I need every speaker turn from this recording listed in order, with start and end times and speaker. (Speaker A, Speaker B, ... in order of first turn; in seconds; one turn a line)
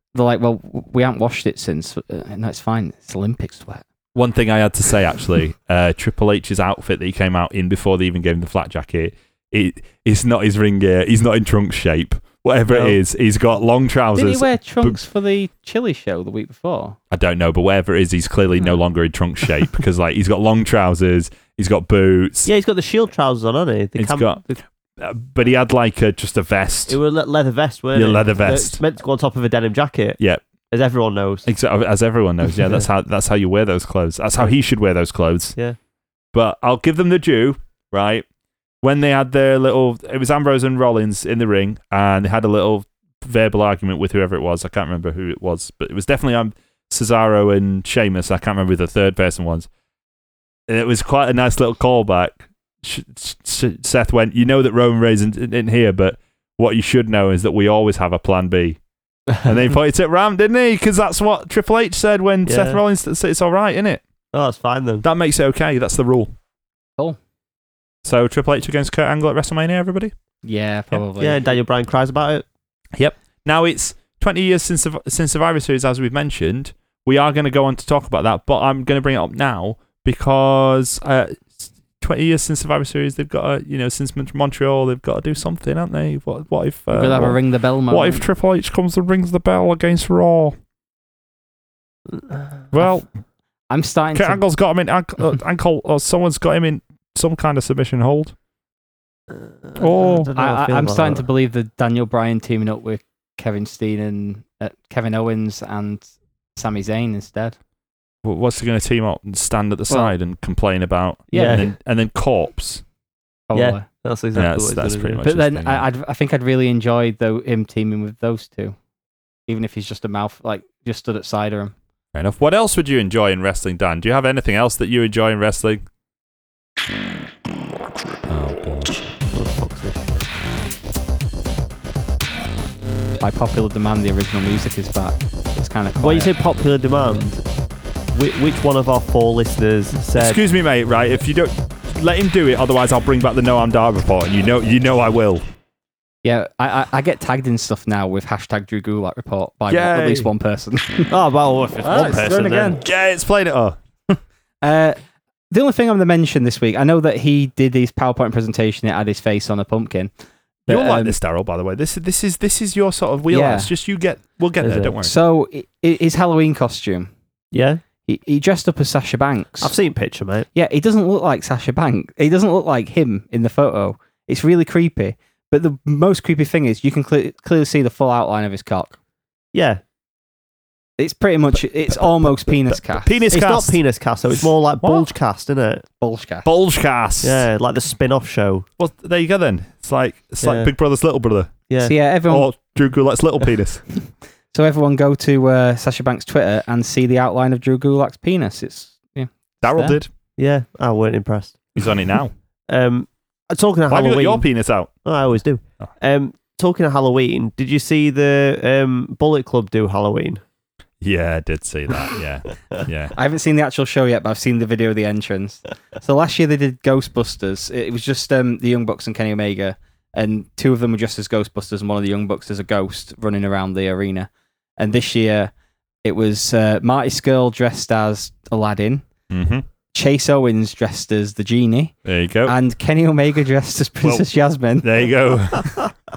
Speaker A: 0.1-3.8
Speaker B: 4.1-15.0
Speaker C: 12.7-13.0
Speaker A: 14.2-17.0
Speaker B: 17.1-22.5
Speaker C: 22.4-24.6
Speaker B: 24.0-24.4
Speaker B: 25.0-27.0
Speaker C: 26.9-30.2
Speaker B: 27.9-28.8
Speaker C: 30.7-31.5
Speaker B: 31.4-35.5
Speaker B: 36.3-38.2
Speaker B: 38.8-49.7
Speaker B: 50.7-58.8
Speaker B: 59.4-64.0
Speaker C: 62.5-62.8
Speaker C: 64.3-65.0
Speaker B: 65.0-66.3
Speaker B: 68.0-70.1
Speaker A: 70.4-71.4
Speaker C: 71.2-72.4
Speaker B: 73.0-87.4
Speaker A: 86.9-88.2
Speaker B: 87.9-90.5
Speaker C: 92.1-92.6
Speaker B: 92.7-93.1
Speaker A: 93.7-94.4
Speaker B: 94.1-98.3
Speaker C: 99.3-101.2
Speaker B: 99.8-100.3
Speaker A: 100.3-106.0
Speaker A: 106.5-107.5
Speaker B: 108.2-112.8
Speaker A: 111.3-111.7
Speaker C: 111.3-111.7
Speaker A: 113.5-113.8
Speaker C: 113.5-115.2
Speaker B: 114.3-115.8
Speaker A: 115.2-118.8
Speaker A: 119.5-121.7
Speaker B: 122.1-125.8
Speaker B: 128.3-129.0
Speaker C: 129.3-130.3
Speaker A: 133.2-136.3
Speaker C: 136.0-137.4
Speaker C: 138.1-140.4
Speaker B: 140.1-145.4
Speaker A: 146.2-151.1
Speaker B: 149.7-150.3
Speaker C: 151.1-152.8
Speaker A: 151.8-152.8
Speaker B: 152.8-153.8
Speaker A: 154.1-155.0
Speaker A: 155.5-160.1
Speaker A: 160.7-161.2
Speaker B: 160.7-165.1
Speaker A: 163.3-163.7
Speaker C: 164.6-164.9
Speaker A: 165.0-167.1
Speaker C: 167.5-167.8
Speaker A: 168.1-169.7
Speaker C: 169.6-170.5
Speaker A: 170.5-178.9
Speaker C: 179.5-179.8
Speaker A: 181.0-183.2
Speaker B: 181.9-183.8
Speaker C: 183.3-185.8
Speaker B: 184.8-185.1
Speaker A: 186.0-186.5
Speaker B: 186.4-187.4
Speaker C: 187.2-188.7
Speaker B: 188.8-191.5
Speaker C: 190.4-190.7
Speaker C: 191.7-191.9
Speaker A: 191.8-192.5
Speaker B: 192.3-193.8
Speaker A: 194.5-200.0
Speaker B: 199.6-200.1
Speaker C: 200.4-201.9
Speaker B: 201.7-202.3
Speaker C: 202.7-204.5
Speaker B: 203.9-205.0
Speaker C: 205.0-210.4
Speaker B: 211.0-213.1
Speaker A: 213.1-225.5
Speaker A: 226.0-229.0
Speaker B: 229.3-229.6
Speaker A: 229.9-231.9
Speaker B: 232.0-232.6
Speaker A: 232.4-235.0
Speaker B: 234.8-235.8